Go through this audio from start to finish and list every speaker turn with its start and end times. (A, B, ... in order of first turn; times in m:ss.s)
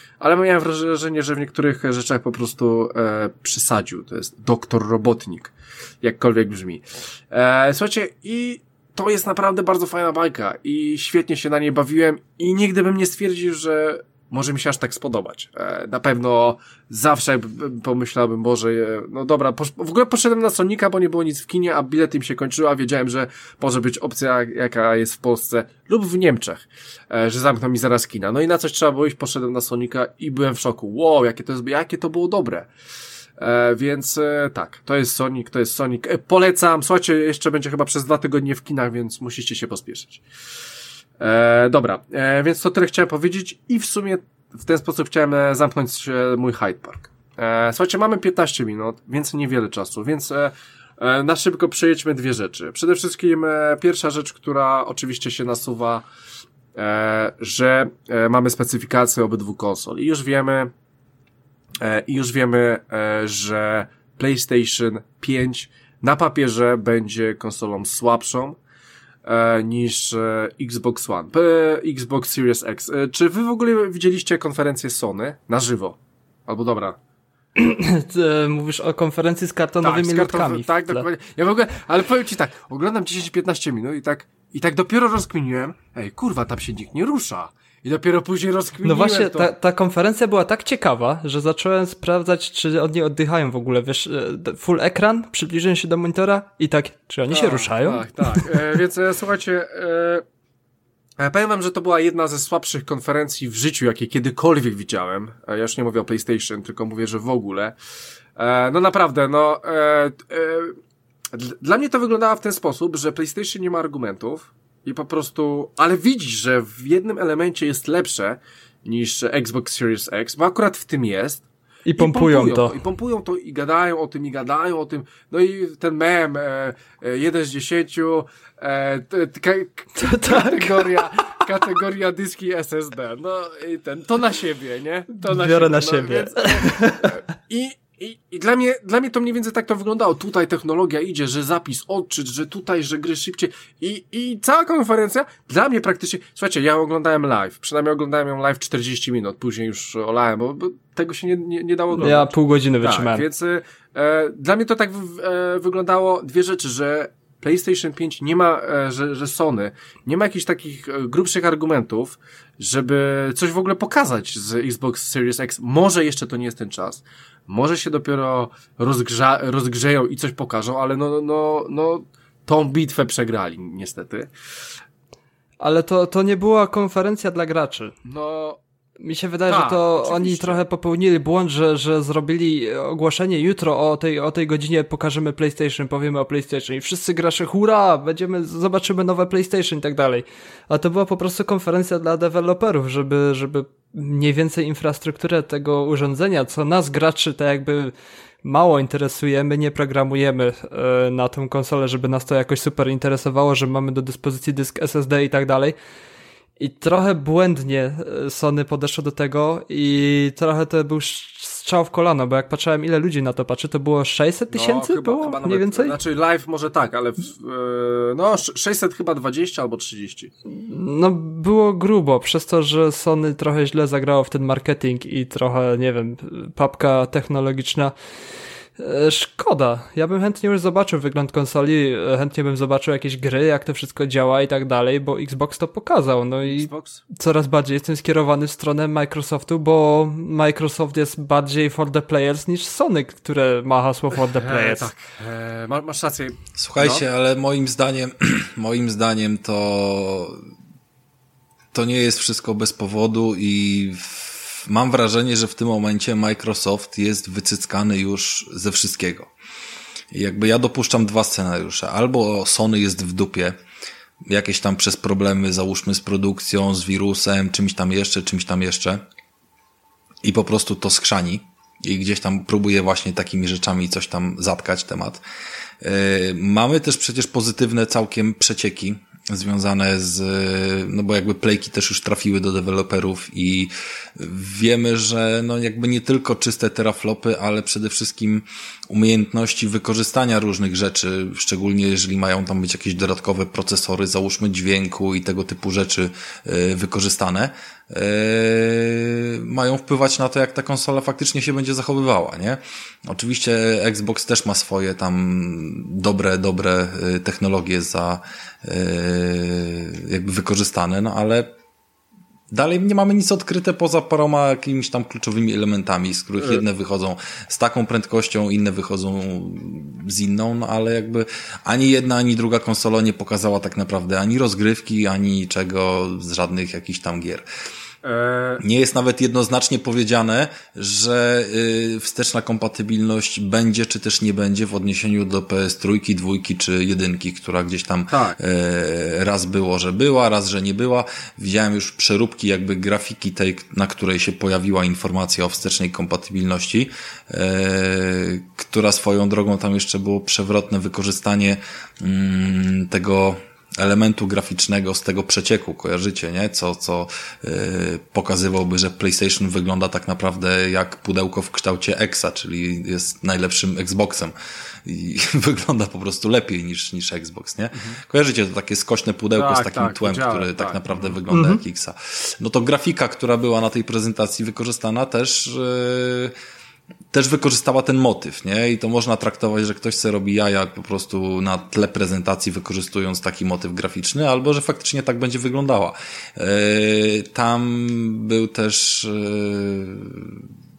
0:00.2-0:32.7 A
0:33.4-0:40.2 A
0:41.2-0:56.0 A
0:56.8-1:00.7 A
1:01.8-1:08.6 A
1:09.3-1:17.0 A
1:17.6-1:21.0 B
1:19.8-1:29.5 A
1:28.8-1:38.8 B
1:37.3-1:40.2 A
1:41.2-1:47.8 A
1:48.4-1:50.8 A
1:51.3-2:01.4 A
2:01.9-2:02.8 B
2:02.0-2:54.3 A
2:10.0-2:11.1 B
2:15.3-2:17.2 B
2:32.0-2:33.2 B
2:55.6-2:57.9 B
2:58.0-2:58.6 A
2:59.0-3:25.8 B
2:59.5-3:00.6 A
3:26.6-3:36.0 B
3:34.5-3:40.3 A
3:40.5-3:47.9 B
3:48.8-4:04.9 B
3:56.4-3:57.0 A
4:04.2-4:07.0 A
4:06.6-4:10.4 C
4:11.7-4:19.3 C
4:20.1-4:23.6 C
4:24.2-4:29.0 C
4:30.2-4:35.2 C
4:35.8-5:11.5 C
5:12.5-5:27.5 C
5:28.0-5:28.6 A
5:28.6-6:04.3 C
5:38.1-5:38.4 A
6:04.8-6:16.4 C
6:09.4-6:11.2 A
6:11.3-6:11.6 B
6:17.1-6:30.5 C